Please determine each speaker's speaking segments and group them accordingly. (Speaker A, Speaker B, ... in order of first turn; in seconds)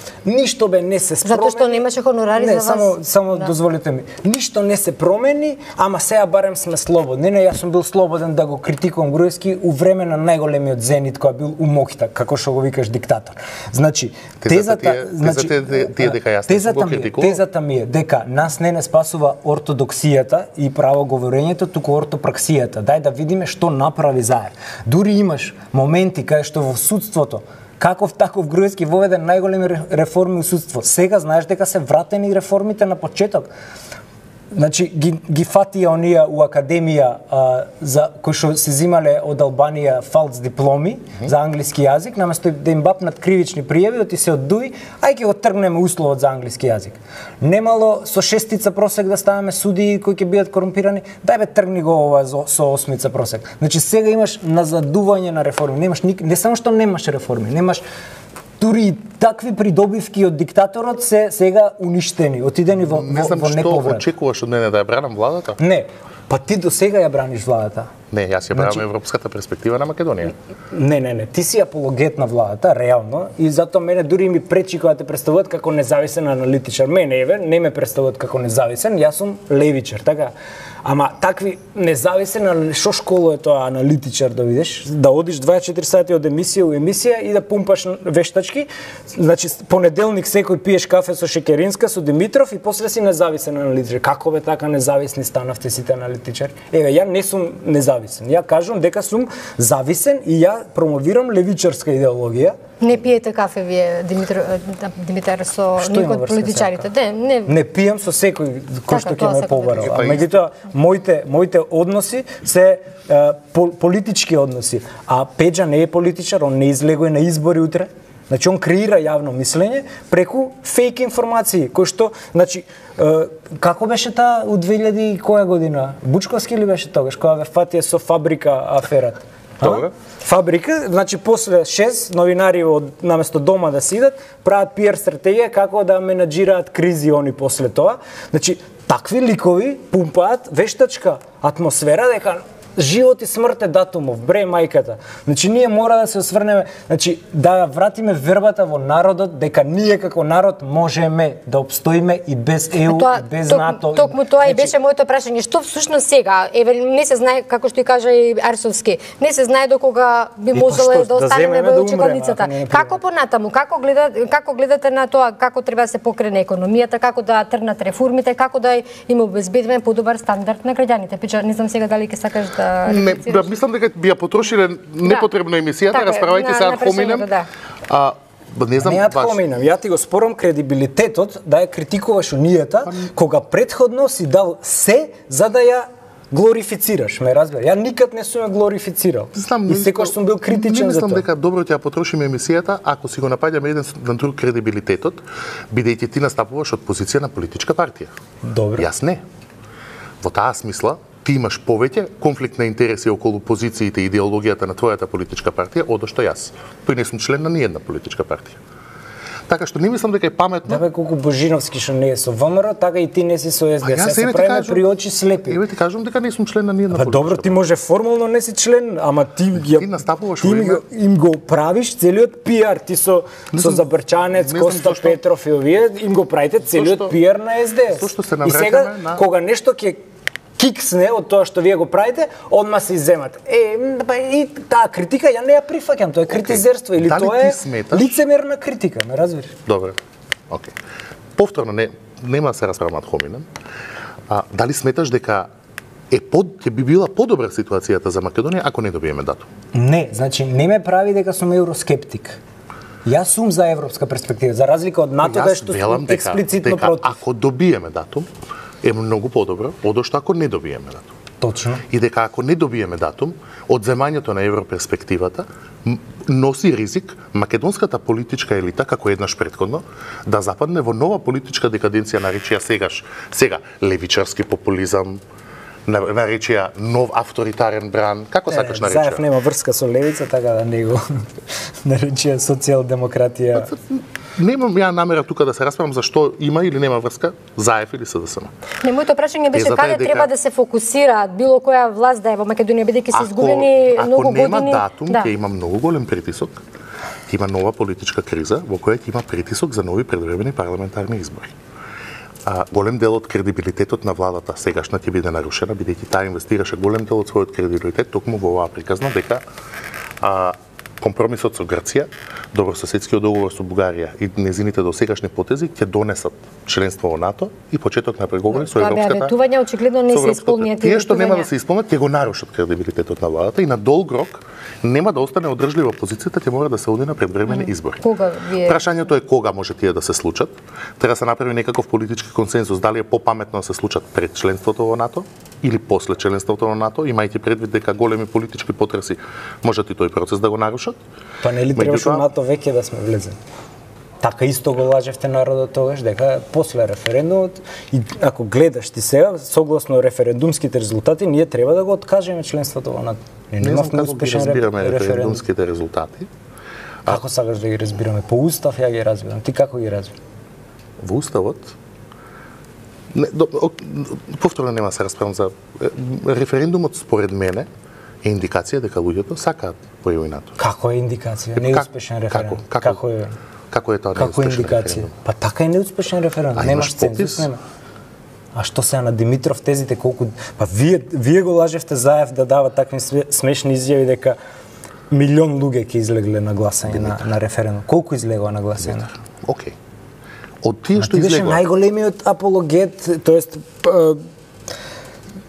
Speaker A: 0.2-1.9, 2.4-33.5, 34.5-57.8, 58.6-64.0, 65.6-67.9, 68.6-68.8, 70.7-102.6, 105.8-106.9, 107.5-154.7, 160.5-163.0, 178.8-191.2, 198.4-198.9, 210.7-215.6, 216.9-219.9, 220.4-230.0, 230.6-239.6, 249.7-252.4, 253.1-257.2, 261.4-261.8, 278.5-281.3, 281.8-283.7, 341.4-343.4, 344.2-355.4, 357.1-360.1, 370.6-373.3, 374.2-377.6, 378.5-384.4, 385.1-389.1, 391.0-394.2
Speaker B: 1.2-3.0, 102.8-107.5, 108.9-109.9, 152.8-173.5, 175.9-177.5, 288.8-295.3, 318.5-321.5, 327.5-328.8
Speaker C: 14.4-17.4, 62.9-65.6, 68.1-70.3, 109.8-110.3, 129.6-129.9, 172.9-177.3, 177.9-179.4, 189.4-198.1, 198.8-199.2, 200.2-208.6, 209.5-210.8, 213.8-214.9, 215.5-217.6, 219.6-220.8, 223.5-223.8, 224.4-225.2, 226.8-227.2, 227.9-229.2, 236.4-238.2, 239.7-240.0, 241.4-243.5, 244.3-245.5, 246.1-249.5, 255.2-258.3, 258.8-261.1, 261.9-275.2, 275.9-279.2, 283.6-288.5, 289.5-290.3, 293.1-296.6, 297.3-301.5, 302.4-309.4, 310.2-319.3, 320.1-328.0, 328.6-341.0, 341.7-342.3, 353.6-356.3, 361.0-361.8, 363.1-367.7, 368.2-370.6, 371.6-373.0, 373.7-375.1, 376.6-377.5, 389.4-389.8, 390.6-391.6